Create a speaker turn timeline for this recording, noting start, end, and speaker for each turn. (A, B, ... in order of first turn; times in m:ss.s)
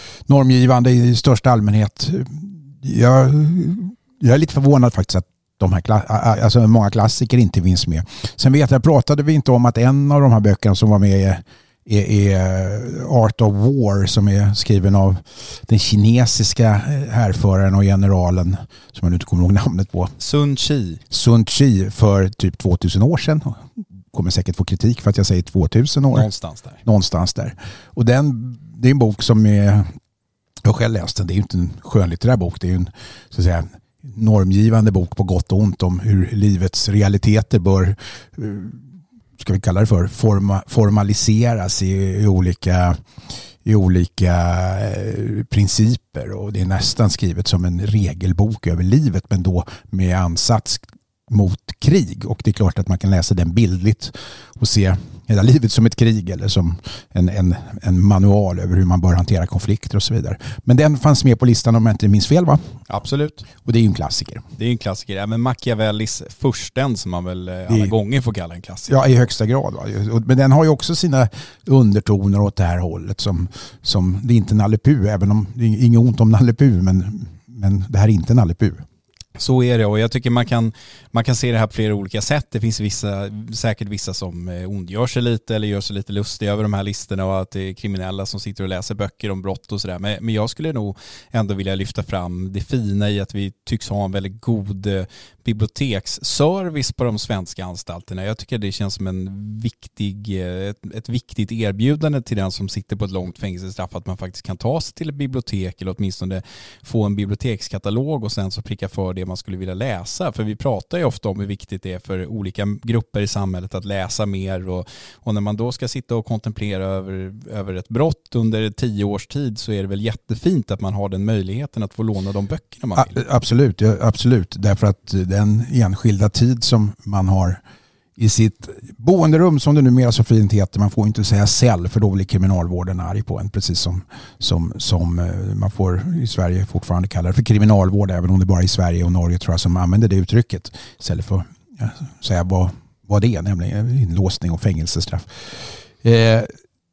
0:00.3-0:20.1 A
0:20.2-0:21.0 B
0:21.1-0:26.3 A
0:26.1-0:26.8 B
0:26.8-0:29.9 A
0:30.6-0:38.8 A
0:39.4-0:43.0 A
0:43.6-1:02.6 A
1:02.9-1:03.5 B
1:03.6-1:04.4 A
1:04.6-1:09.0 B
1:08.9-1:18.8 A
1:19.4-2:03.2 B
2:03.0-2:07.6 A
2:08.2-2:26.5 A